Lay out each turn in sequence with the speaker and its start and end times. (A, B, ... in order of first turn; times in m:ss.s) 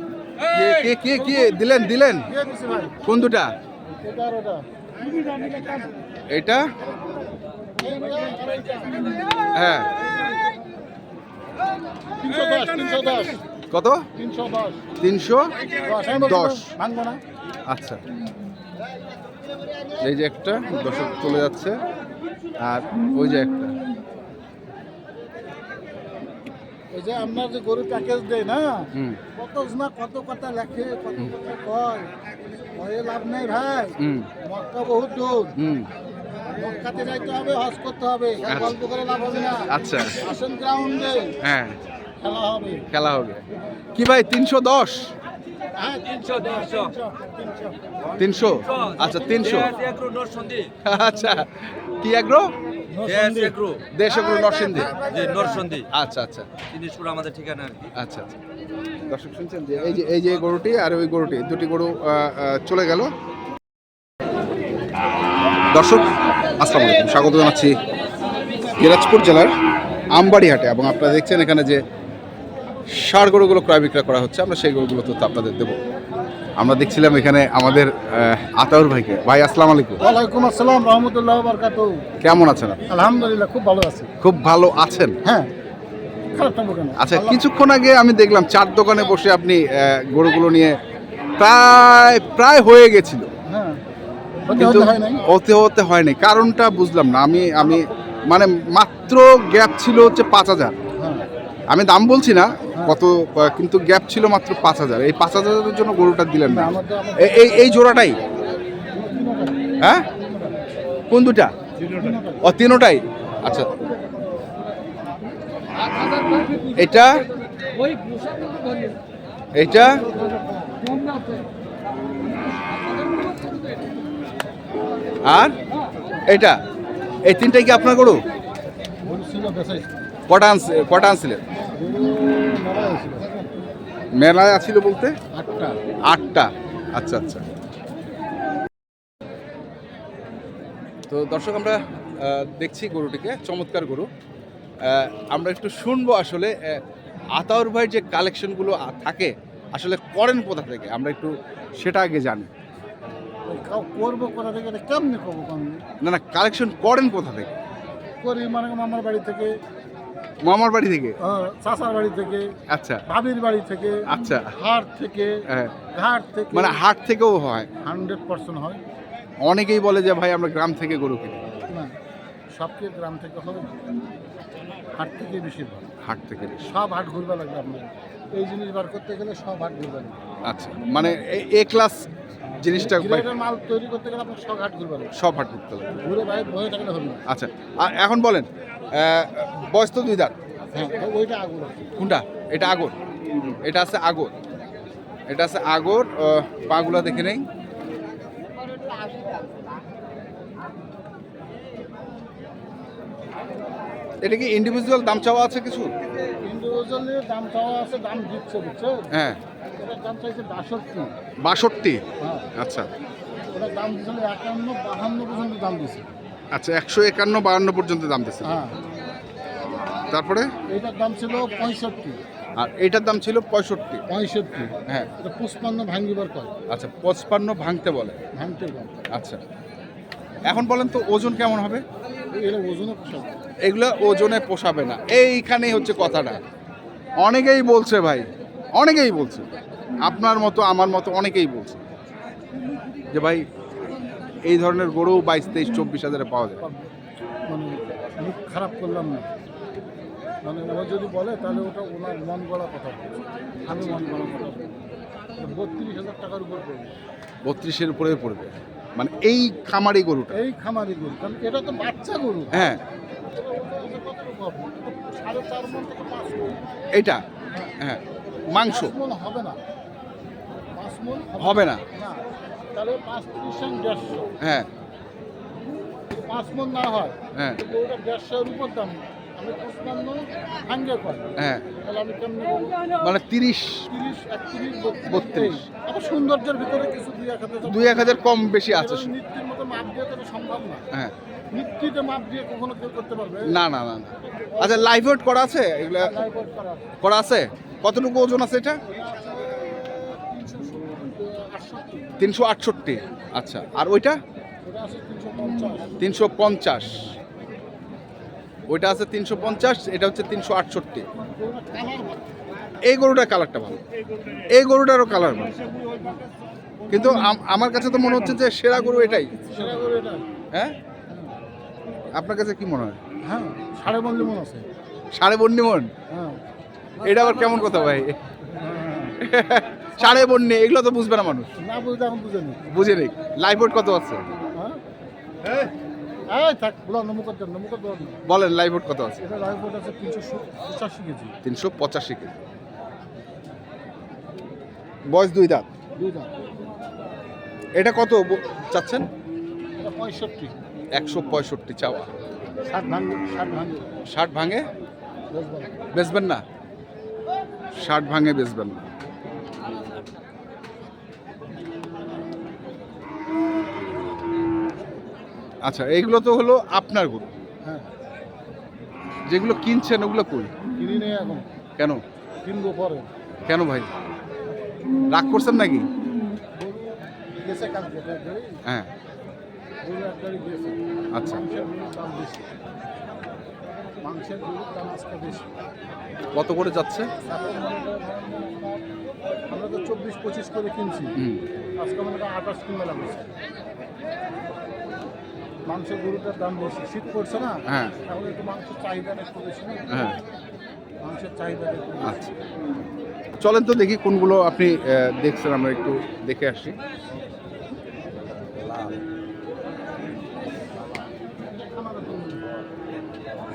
0:00.5-0:02.3 A
0:02.3-0:03.0 B
0:03.0-0:03.5 A
0:03.9-0:04.6 B
0:05.3-0:05.8 B
0:06.3-0:06.7 A
0:07.8-0:09.2 B
0:09.6-0:09.9 A
0:12.2-0:13.4 B
0:13.7-0:14.1 A
0:14.2-0:14.8 B
0:15.0-0:15.6 A
0:15.8-0:17.2 B
0:16.1-0:16.7 A
0:17.7-0:18.0 A
0:20.0-0:21.8 A
0:22.6-0:23.8 A
0:26.9-0:32.1 B
0:29.0-0:29.2 A
0:32.8-0:35.6 B
0:34.0-0:34.3 A
0:35.6-0:35.9 A
0:36.5-0:41.4 B
0:38.5-0:38.8 A
0:39.7-0:40.2 A
0:41.4-0:41.8 A
0:42.2-0:42.9 B
0:42.9-0:43.4 A
0:44.0-0:45.1 A
0:45.8-0:47.7 B
0:48.2-0:49.7 A
0:48.6-0:50.8 C
0:48.8-0:49.9 B
0:50.8-0:52.5 A
0:53.0-0:53.8 C
0:53.9-0:55.0 A
0:54.9-0:55.9 C
0:55.9-0:56.5 A
0:56.7-0:57.9 C
0:58.0-0:58.3 A
0:59.1-1:03.1 A
1:05.7-1:07.8 A
1:08.8-1:09.6 A
1:10.1-1:11.8 A
1:13.0-1:15.8 A
1:16.6-1:20.0 A
1:20.0-1:22.0 B
1:22.2-1:22.8 A
1:22.9-1:24.1 B
1:24.2-1:25.2 A
1:25.2-1:25.5 B
1:26.3-1:27.4 B
1:27.0-1:30.8 A
1:31.4-1:33.3 A
1:33.5-1:33.8 B
1:34.4-1:35.2 B
1:34.5-1:40.8 A
1:41.0-1:41.3 B
1:41.7-1:48.2 A
1:46.5-1:47.7 B
1:48.9-1:50.6 B
1:51.1-1:51.5 A
1:51.8-1:52.5 B
1:52.4-1:53.7 A
1:56.8-1:57.3 A
1:59.6-2:00.0 A
2:00.0-2:00.9 B
2:05.2-2:05.6 A
2:06.3-2:06.6 A
2:07.2-2:08.2 A
2:09.0-2:09.9 B
2:10.3-2:11.4 A
2:11.5-2:13.5 B
2:14.2-2:15.2 A
2:15.3-2:15.8 B
2:16.1-2:17.5 A
2:21.1-2:24.1 A
2:24.8-2:26.8 A
2:27.4-2:32.5 A
2:33.5-2:35.8 B
2:36.0-2:37.5 A
2:38.2-2:39.5 B
2:40.4-2:41.2 A
2:41.2-2:42.5 B
2:42.7-2:43.0 A
2:43.1-2:45.4 B
2:44.1-2:44.5 A
2:45.5-2:45.8 A
2:45.9-2:46.8 B
2:46.5-2:47.7 A
2:47.8-2:48.8 B
2:49.4-2:51.7 A
2:51.7-2:51.9 B
2:52.5-2:53.8 B
2:55.0-2:55.9 B
2:56.0-2:56.7 A
2:56.7-3:00.2 B
3:00.5-3:02.1 A
3:02.6-3:03.3 A
3:02.7-3:05.1 B
3:05.2-3:06.0 A
3:06.0-3:07.2 B
3:07.3-3:10.4 A
3:10.7-3:11.9 B
3:12.0-3:13.0 A
3:13.6-3:14.3 A
3:15.3-3:17.4 A
3:24.2-3:25.9 A
3:26.4-3:29.1 B
3:29.1-3:29.4 A
3:29.8-3:31.1 B
3:31.4-3:32.0 A
3:32.2-3:32.5 B
3:32.6-3:32.9 A
3:33.5-3:36.1 B
3:36.5-3:38.5 A
3:38.4-3:38.8 B
3:40.1-3:40.5 A
3:40.7-3:42.2 B
3:42.6-3:44.0 A
3:44.1-3:46.5 B
3:46.7-3:48.2 A
3:48.4-3:49.0 B
3:49.1-3:49.4 A
3:50.5-3:51.8 A
3:52.3-3:53.3 B
3:53.6-3:56.4 A
3:57.2-3:59.5 A
4:00.0-4:01.8 A
4:03.1-4:03.4 A
4:04.5-4:06.6 A
4:06.6-4:06.9 B
4:07.5-4:09.3 B
4:10.4-4:14.7 B
4:15.4-4:16.9 B
4:17.4-4:20.4 A
4:20.3-4:22.7 B
4:22.5-4:22.8 A
4:23.3-4:26.6 B
4:26.9-4:27.2 A
4:27.8-4:28.9 A
4:28.6-4:29.6 B
4:30.8-4:32.2 B
4:31.4-4:31.8 A
4:32.7-4:34.4 B
4:34.4-4:34.7 A
4:36.1-4:42.9 B
4:41.4-4:41.7 A
4:43.0-4:43.9 A
4:43.9-4:50.8 B
4:45.0-4:45.6 A
4:47.7-4:49.1 A
4:51.5-4:53.6 B
4:53.5-4:56.2 A
4:54.3-4:54.9 B
4:56.0-4:56.9 B
4:57.0-4:58.8 A
4:58.9-5:02.2 B
5:02.2-5:04.2 A
5:04.6-5:06.0 B
5:06.0-5:07.1 A
5:08.7-5:11.1 A
5:11.2-5:12.3 B
5:12.8-5:13.8 A
5:14.5-5:15.6 A
5:16.9-5:19.5 A
5:19.5-5:20.2 B
5:22.1-5:23.0 A
5:23.2-5:24.7 B
5:25.1-5:25.9 A
5:26.1-5:26.4 B
5:27.0-5:28.2 A
5:28.5-5:29.2 B
5:29.2-5:31.5 A
5:30.0-5:30.2 B
5:31.6-5:32.8 B
5:32.7-5:34.3 A
5:36.3-5:38.2 B
5:38.3-5:39.2 A
5:39.2-5:41.4 B
5:41.4-5:42.4 A
5:45.1-5:45.7 A
5:46.0-5:46.3 B
5:47.8-5:49.1 A
5:49.8-5:50.6 B
5:50.9-5:52.1 A
5:52.6-5:53.8 B
5:54.1-5:54.6 A
5:55.3-5:55.8 B
5:55.9-5:56.4 A
5:57.8-5:58.9 A
6:05.6-6:07.3 A
6:09.3-6:10.5 A
6:10.8-6:11.5 B
6:12.4-6:13.1 B
6:13.5-6:13.9 A
6:15.1-6:15.9 A
6:16.6-6:18.6 B
6:19.8-6:22.5 B
6:21.1-6:21.4 A
6:24.0-6:25.5 B
6:26.3-6:27.1 A
6:27.2-6:28.8 B
6:29.5-6:31.2 B
6:31.2-6:31.4 A
6:31.8-6:33.3 B
6:35.7-6:39.9 B
6:37.7-6:38.0 A
6:39.9-6:40.2 A
6:41.0-6:42.2 B
6:42.0-6:42.3 A
6:43.4-6:46.8 A
6:51.5-6:52.5 B